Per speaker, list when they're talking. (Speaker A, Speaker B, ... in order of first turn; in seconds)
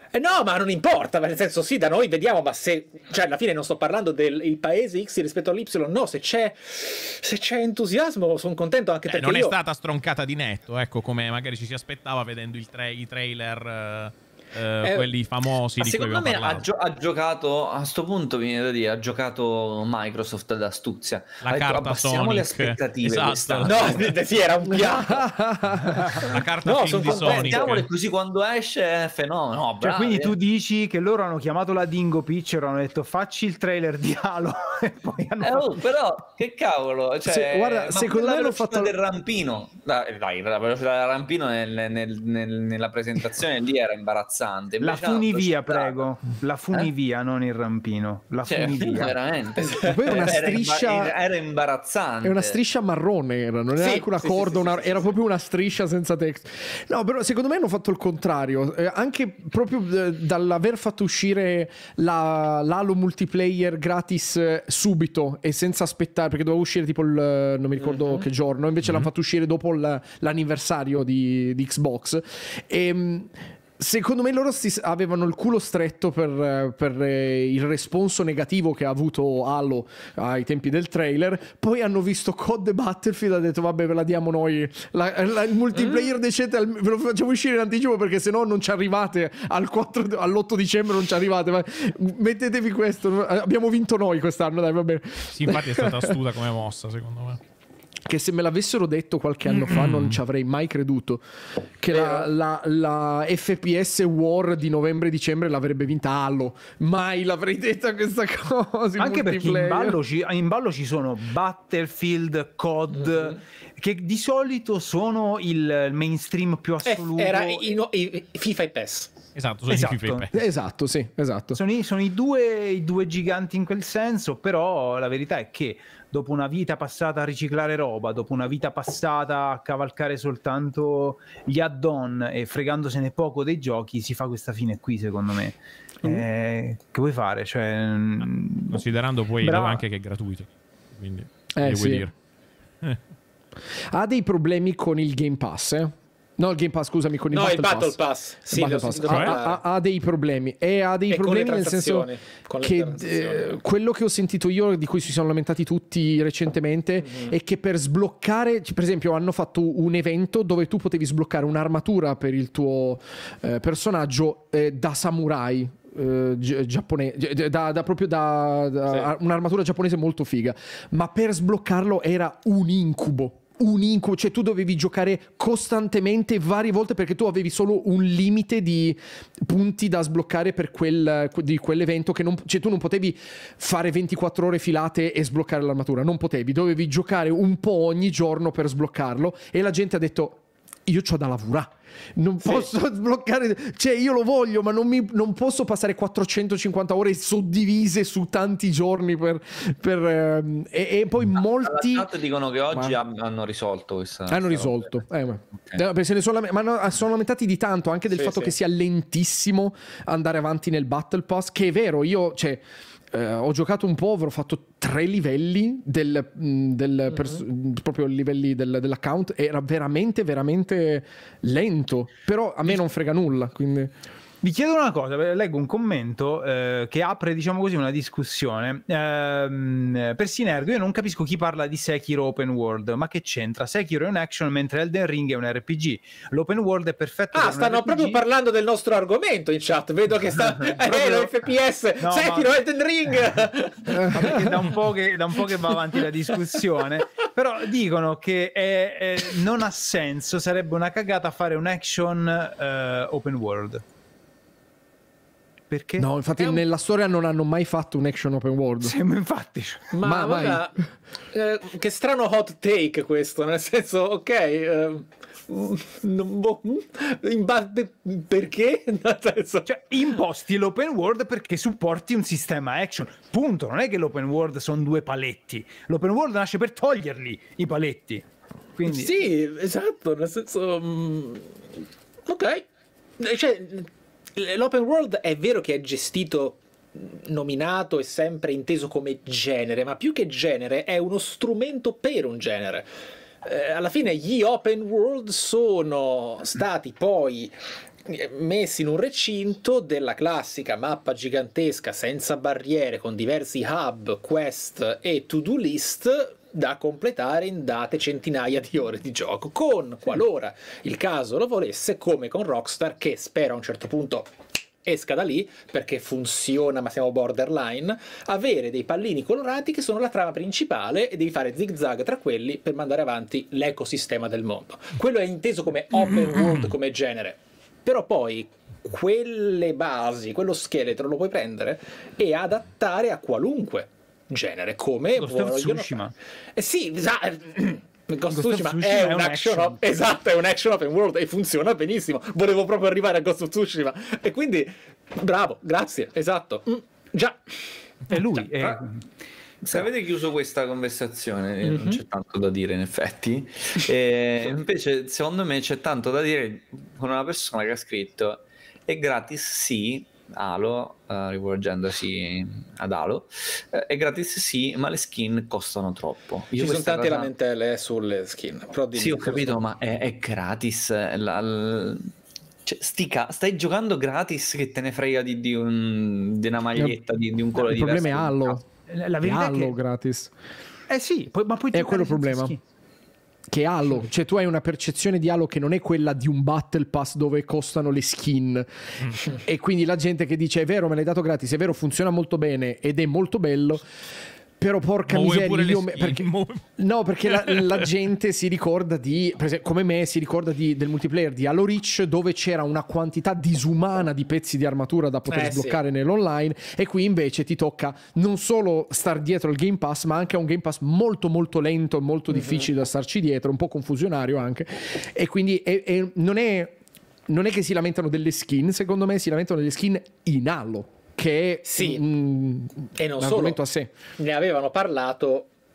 Speaker A: 0.1-9.5, 14.8-15.1, 23.7-25.3, 26.6-27.8, 49.6-50.3, 53.7-55.1, 67.8-68.3, 101.9-102.3, 116.8-119.1, 147.3-149.6, 151.1-153.5, 192.4-192.7, 208.1-208.5, 217.1-217.4, 237.3-244.7, 259.9-269.7, 278.9-281.6, 282.2-282.6, 283.2-292.9, 293.4-297.5, 298.1-314.3, 314.8-336.0, 336.6-348.1, 351.7-352.0, 366.5-369.6, 405.3-405.8, 412.3-412.7, 421.6-422.0, 423.0-423.6, 424.2-425.5
Speaker B: 9.1-16.6, 21.4-24.1, 26.3-27.9, 95.3-97.4, 99.5-100.2, 119.3-120.3, 138.7-142.1, 149.1-149.3, 326.4-326.7, 395.1-396.6, 397.2-397.9
Speaker C: 15.8-24.1, 27.1-30.3, 35.4-46.1, 48.5-52.6, 201.6-204.8, 349.6-367.3, 368.9-372.1, 372.6-378.6
Speaker D: 24.7-26.3, 37.2-38.9, 49.8-51.1, 52.2-96.2, 98.0-101.2, 101.8-110.0, 120.3-121.6, 141.6-142.1, 143.9-152.1, 152.6-202.1, 204.3-223.9, 244.0-244.3, 256.0-258.9, 260.0-260.7, 377.5-378.6, 379.2-380.3, 381.7-382.6, 383.5-393.9, 394.6-423.9
Speaker E: 29.8-35.8, 44.8-49.1, 109.0-117.7, 119.7-120.2, 121.5-138.8, 139.4-139.8, 224.4-238.2, 240.7-241.3, 242.0-242.5, 243.9-253.8, 255.7-256.1, 258.8-259.9, 269.6-279.1, 335.1-336.1, 338.3-339.8, 348.1-349.0, 378.9-379.8, 380.9-382.6